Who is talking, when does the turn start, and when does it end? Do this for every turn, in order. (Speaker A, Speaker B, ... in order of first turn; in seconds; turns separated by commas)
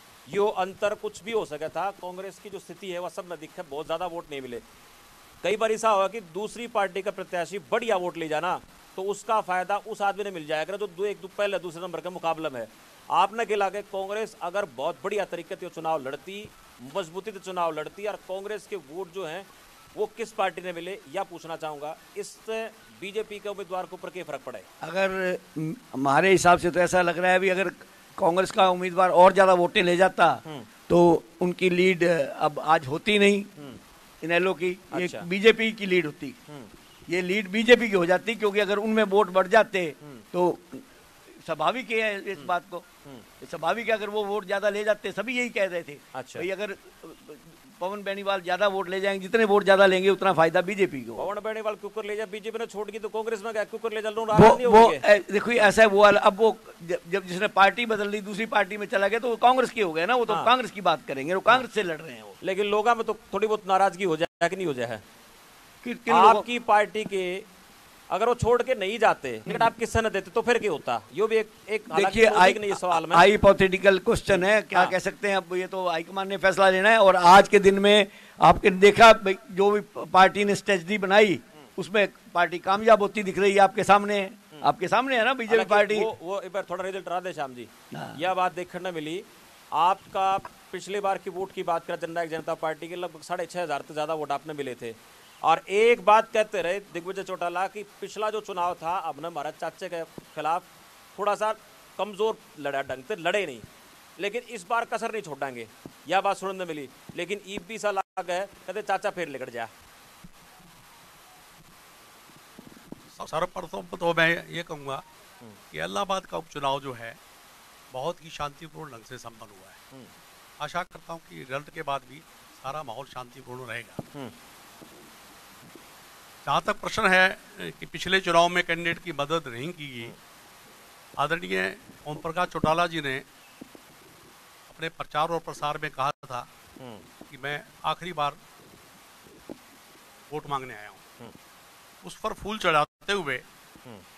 Speaker A: 0.3-4.6, Speaker A: 5.4-24.6, Speaker B: 24.8-33.5, Speaker B: 34.2-36.4, Speaker A: 34.9-35.3, Speaker B: 37.1-40.8, Speaker B: 41.4-42.8, Speaker B: 43.4-51.3, Speaker A: 46.1-46.5, Speaker A: 51.2-55.0, Speaker B: 54.3-62.4, Speaker A: 62.4-65.0, Speaker B: 65.8-66.5, Speaker A: 66.1-67.5, Speaker A: 68.1-73.3, Speaker B: 71.9-86.1, Speaker A: 74.3-75.0, Speaker A: 85.5-103.6, Speaker B: 87.9-88.2, Speaker A: 104.2-109.7, Speaker C: 113.1-115.0, Speaker C: 115.7-117.2, Speaker C: 117.9-119.8, Speaker C: 120.6-124.0, Speaker C: 126.4-130.1, Speaker C: 131.2-133.2, Speaker C: 134.7-136.5, Speaker A: 136.8-137.0, Speaker C: 137.3-138.4, Speaker C: 140.3-141.0, Speaker C: 142.0-143.4